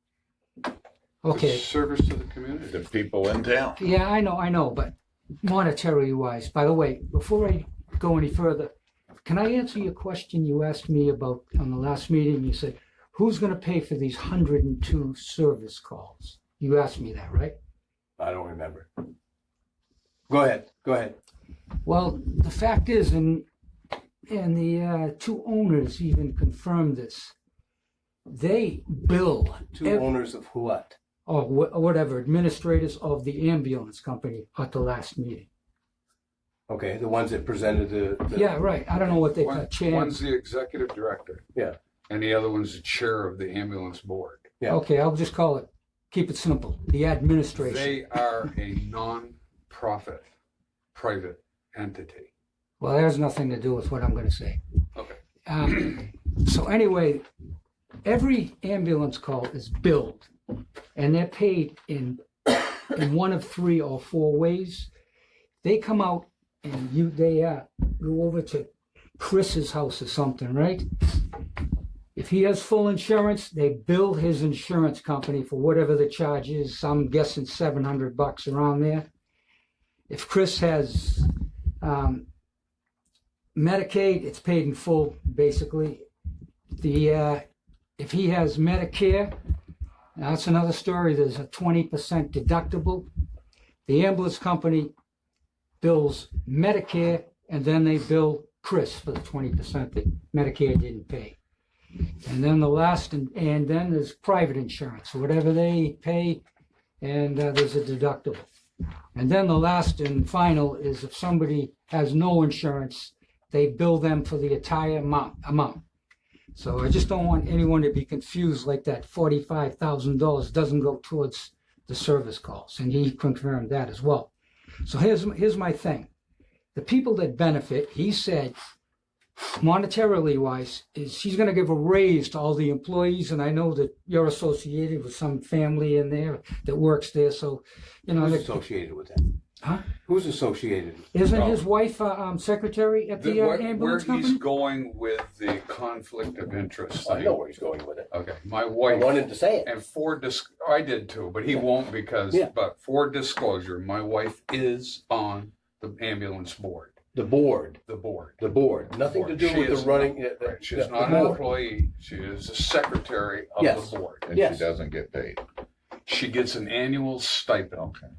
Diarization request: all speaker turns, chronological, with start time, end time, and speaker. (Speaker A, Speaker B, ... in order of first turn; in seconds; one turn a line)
Speaker A: 1.2-1.7
Speaker B: 1.3-2.9
Speaker C: 2.7-3.8
Speaker A: 3.8-8.7
Speaker A: 9.2-17.6
Speaker D: 18.2-18.9
Speaker D: 20.3-21.2
Speaker A: 21.9-23.5
Speaker A: 24.3-27.3
Speaker A: 28.3-30.1
Speaker D: 29.7-31.0
Speaker A: 31.3-35.5
Speaker D: 36.7-38.6
Speaker A: 38.3-40.2
Speaker B: 39.3-41.5
Speaker B: 42.1-44.5
Speaker A: 44.7-48.0
Speaker B: 47.5-50.3
Speaker B: 50.9-52.3
Speaker A: 52.8-54.6
Speaker A: 55.5-57.2
Speaker A: 58.0-60.3
Speaker A: 61.0-64.9
Speaker A: 65.6-71.2
Speaker A: 72.2-79.1
Speaker A: 80.1-81.3
Speaker A: 81.8-82.3
Speaker A: 83.5-86.0
Speaker A: 86.8-87.4
Speaker A: 88.0-89.3
Speaker A: 90.2-93.1
Speaker A: 93.9-94.9
Speaker A: 95.8-101.4
Speaker A: 102.2-106.4
Speaker A: 107.0-108.5
Speaker A: 109.2-115.8
Speaker A: 116.5-124.3
Speaker A: 124.8-126.1
Speaker A: 126.8-128.6
Speaker A: 129.4-138.6
Speaker D: 138.2-139.3
Speaker A: 139.6-139.9
Speaker D: 140.0-141.1
Speaker A: 141.1-144.4
Speaker B: 141.3-141.6
Speaker B: 143.2-147.4
Speaker D: 147.0-148.1
Speaker B: 148.1-157.0
Speaker D: 148.9-149.7
Speaker D: 157.1-157.8
Speaker B: 157.8-164.3
Speaker D: 158.4-161.4
Speaker A: 161.0-161.4
Speaker D: 163.6-164.6
Speaker C: 164.3-165.4
Speaker B: 166.1-167.9
Speaker C: 167.8-168.1